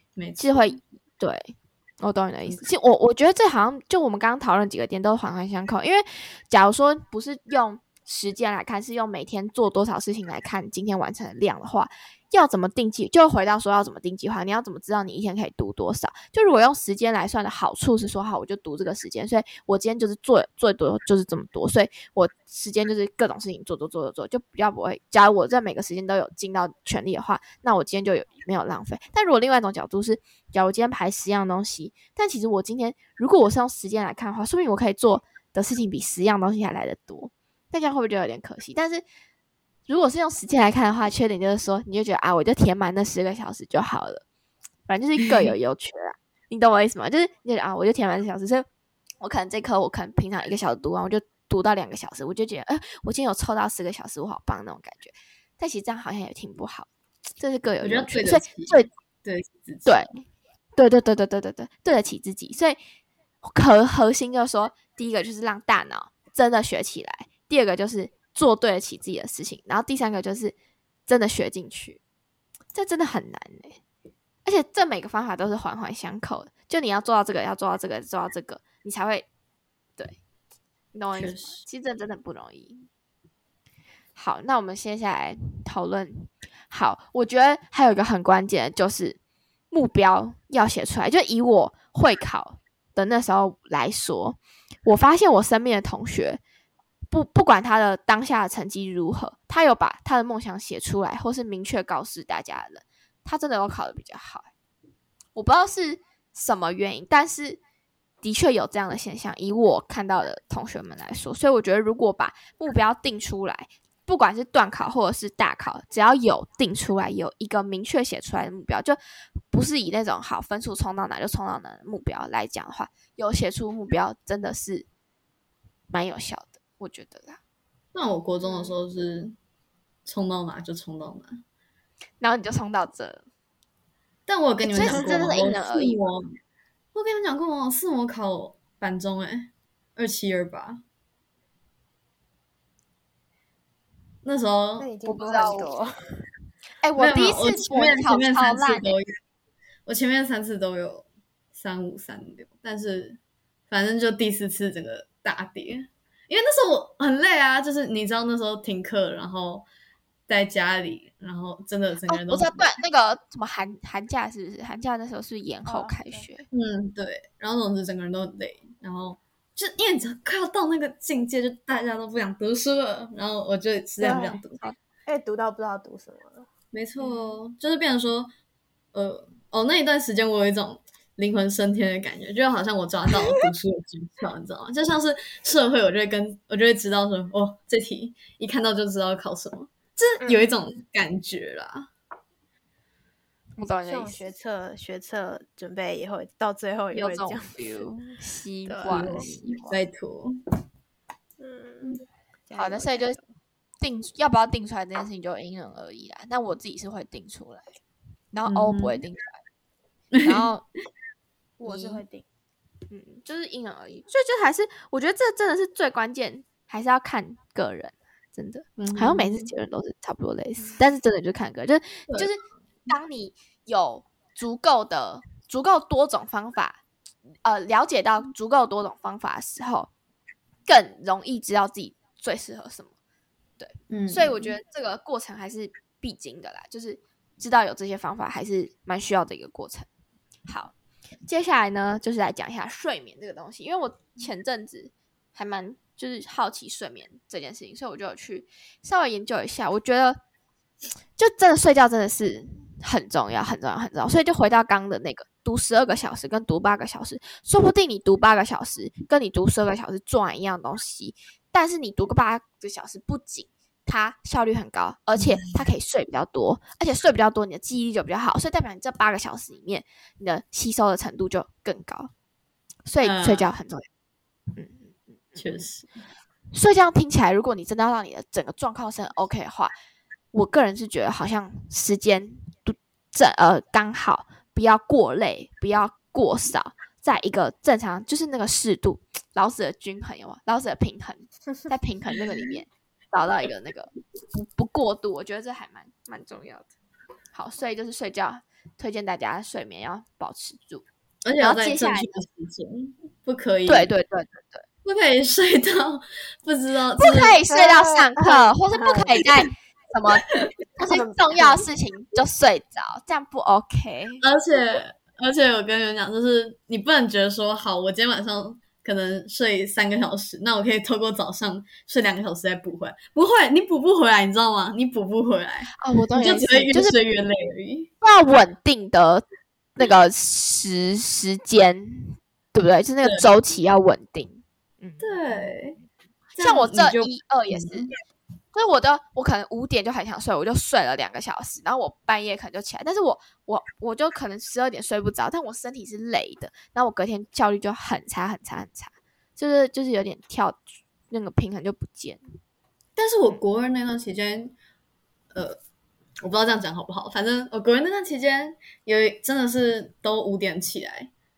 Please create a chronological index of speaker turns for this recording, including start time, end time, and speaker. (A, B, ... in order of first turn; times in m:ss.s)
0:00.2-0:00.8 A
0:00.4-0:39.0 B
0:39.9-0:44.2 B
0:44.9-0:48.6 B
0:49.2-0:58.9 B
0:57.8-1:00.0 A
0:59.8-1:00.2 B
1:00.8-1:02.8 B
1:03.4-1:10.5 B
1:11.1-1:12.0 B
1:12.7-1:13.8 B
1:14.4-1:19.3 B
1:20.9-1:22.9 B
1:21.1-1:21.6 A
1:24.2-1:29.2 B
1:29.7-1:36.4 B
1:37.1-1:44.5 B
1:45.3-1:47.6 B
1:48.2-1:59.0 B
1:59.5-2:04.9 B
2:05.9-2:07.4 B
2:07.9-2:09.4 A
2:08.4-2:08.7 B
2:10.0-2:11.4 A
2:12.2-2:13.2 B
2:14.3-2:16.3 A
2:14.6-2:16.0 B
2:14.8-2:15.2 C
2:16.9-2:20.8 A
2:24.2-2:24.9 A
2:24.8-2:26.2 C
2:25.0-2:25.7 B
2:26.8-2:28.9 B
2:27.0-2:29.1 A
2:29.8-2:39.7 A
2:40.3-2:42.7 A
2:42.1-2:46.5 B
2:45.6-2:46.3 C
2:46.5-2:54.6 A
2:54.0-2:54.4 C
2:55.0-2:56.5 C
2:56.7-2:58.3 A
2:58.9-3:11.9 A
3:10.2-3:10.5 C
3:13.6-3:14.2 B
3:13.8-3:17.8 C
3:16.9-3:19.7 B
3:18.6-3:19.8 C
3:18.8-3:20.4 A
3:21.4-3:23.2 C
3:22.6-3:23.2 B
3:23.8-3:27.7 B
3:28.3-3:29.3 B
3:28.4-3:29.0 A
3:30.1-3:30.5 A
3:30.2-3:30.6 B
3:31.6-3:32.3 C
3:31.6-3:32.0 B
3:32.9-3:46.8 B
3:38.8-3:39.5 A
3:47.4-3:49.9 B
3:50.6-3:52.9 B
3:53.6-3:59.9 B
3:53.9-3:54.5 A
4:00.5-4:00.7 B
4:01.2-4:10.2 B
4:11.2-4:32.1 B
4:32.8-4:33.8 B
4:33.0-4:33.5 A
4:34.6-4:35.7 B
4:35.4-4:35.9 A
4:36.5-4:39.7 B
4:40.3-4:56.7 B
4:57.3-5:00.8 B
5:01.2-5:03.9 A
5:01.4-5:02.1 B
5:03.7-5:04.6 B
5:04.8-5:07.4 A
5:07.0-5:14.2 B
5:07.5-5:09.2 C
5:10.9-5:11.6 C
5:14.2-5:27.9 A
5:25.8-5:27.0 B
5:28.0-5:29.2 B
5:29.8-5:35.5 B
5:35.0-5:35.8 A
5:36.4-5:37.9 A
5:36.4-5:37.9 B
5:38.5-5:52.2 B
5:53.0-5:54.5 A
5:55.3-5:55.6 A
5:56.2-6:01.1 A